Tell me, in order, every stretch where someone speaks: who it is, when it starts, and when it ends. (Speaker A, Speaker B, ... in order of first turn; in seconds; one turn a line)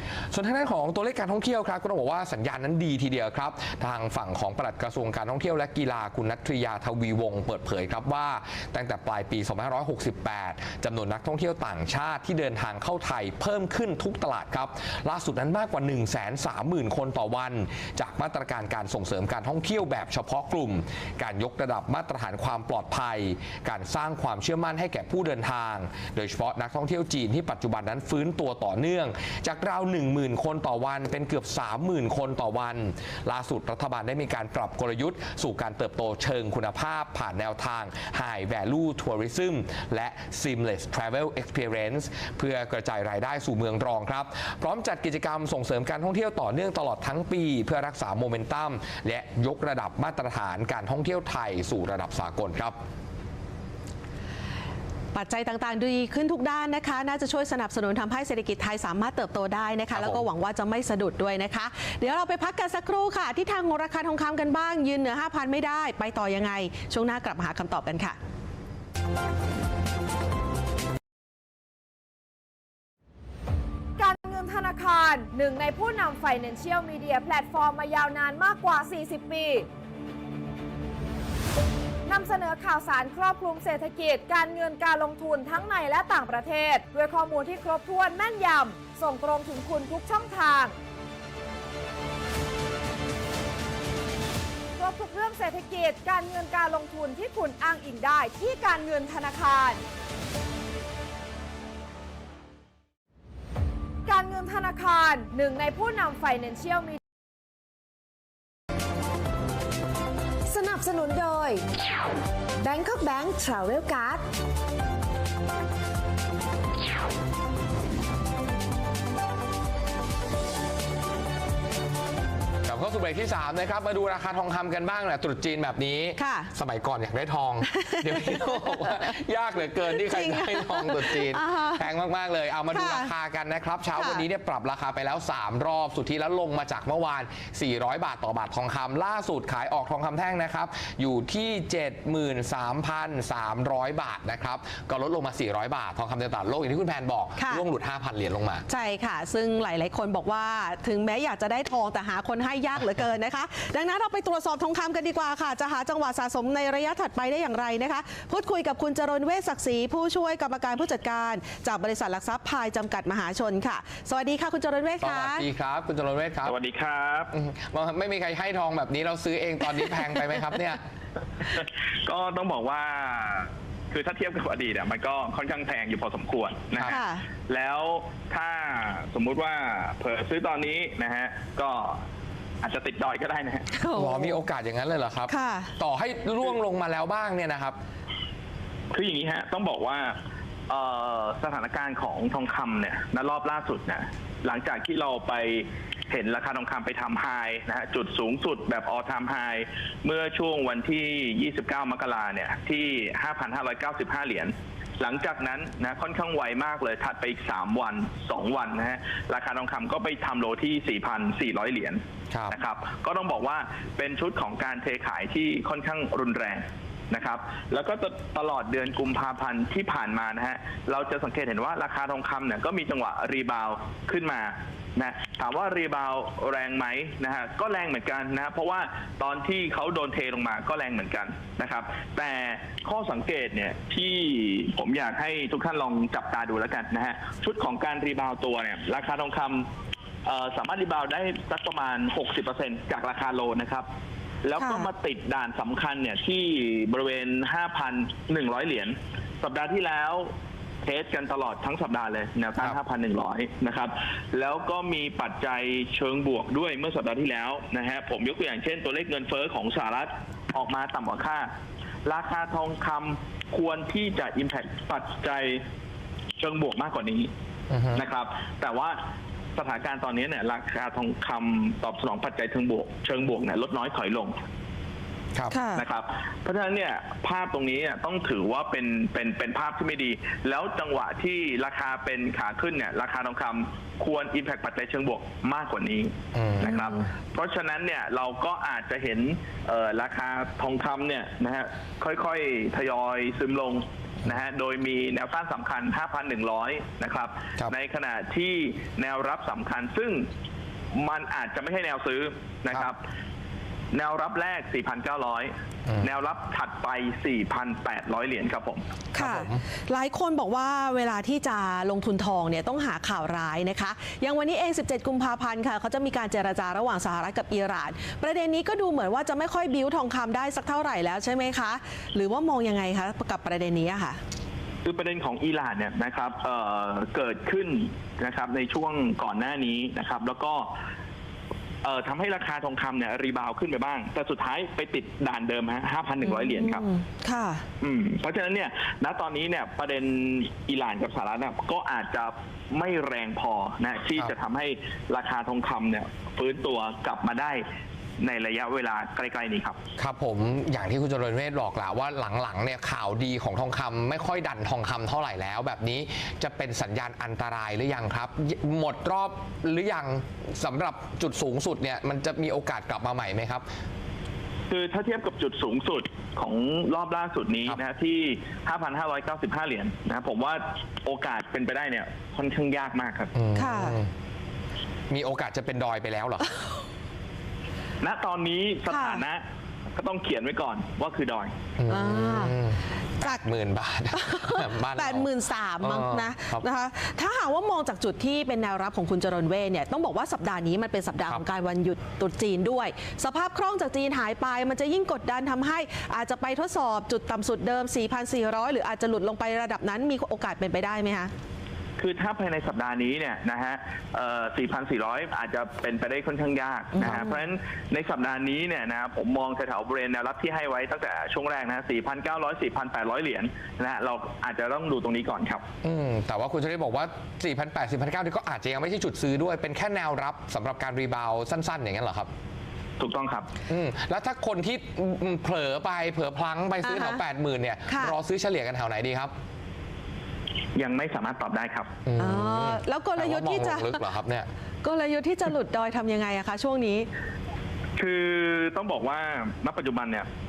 Speaker A: 0.3-52.8
Speaker B: 55.1-68.2
Speaker A: 59.9-60.2
Speaker C: 74.0-79.7
Speaker C: 82.0-90.8
Speaker C: 94.8-99.8
Speaker C: 104.0-107.0
Speaker D: 110.5-111.7
Speaker D: 112.6-114.2
Speaker A: 122.6-148.6
Speaker B: 126.2-126.5
Speaker B: 127.7-129.1
Speaker B: 129.9-131.8
Speaker B: 132.7-133.1
Speaker B: 133.9-134.2
Speaker B: 147.4-147.6
Speaker B: 148.7-165.4
Speaker A: 165.0-166.6
Speaker E: 166.4-167.3
Speaker A: 167.3-170.8
Speaker E: 171.5-182.0
Speaker B: 176.8-177.2
Speaker E: 182.6-183.7
Speaker B: 183.7-184.4
Speaker A: 183.9-187.8
Speaker B: 185.3-185.7
Speaker E: 188.9-190.2
Speaker E: 190.7-239.7
Speaker A: 212.3-212.6
Speaker E: 240.2-243.9
Speaker E: 244.4-261.5
Speaker B: 244.6-244.9
Speaker E: 262.0-265.6
Speaker E: 266.4-267.3
Speaker A: 267.7-268.0
Speaker E: 267.9-269.0
Speaker E: 269.5-274.4
Speaker B: 275.5-275.8
Speaker E: 275.7-300.3
Speaker A: 286.3-287.1
Speaker E: 300.9-303.0
Speaker E: 303.9-308.8
Speaker B: 309.1-324.2
Speaker A: 309.2-309.6
Speaker E: 324.8-330.7
Speaker E: 331.8-336.8
Speaker B: 336.2-337.6
Speaker E: 337.8-347.6
Speaker E: 348.2-349.8
Speaker A: 350.0-363.6
Speaker E: 364.7-373.3
Speaker A: 373.3-374.1
Speaker B: 373.5-374.0
Speaker A: 375.1-376.5
Speaker E: 378.0-379.4
Speaker B: 378.9-379.2
Speaker E: 379.9-381.5
Speaker A: 381.8-386.6
Speaker B: 381.9-382.6
Speaker B: 384.1-401.3
Speaker E: 402.0-415.6
Speaker B: 406.9-407.4
Speaker A: 415.8-422.3
Speaker E: 423.0-423.5
Speaker A: 423.7-429.3
Speaker B: 426.8-427.2
Speaker B: 427.9-428.2
Speaker E: 430.7-431.9
Speaker A: 432.1-434.5
Speaker B: 432.2-434.0
Speaker B: 434.8-437.1
Speaker E: 438.0-440.3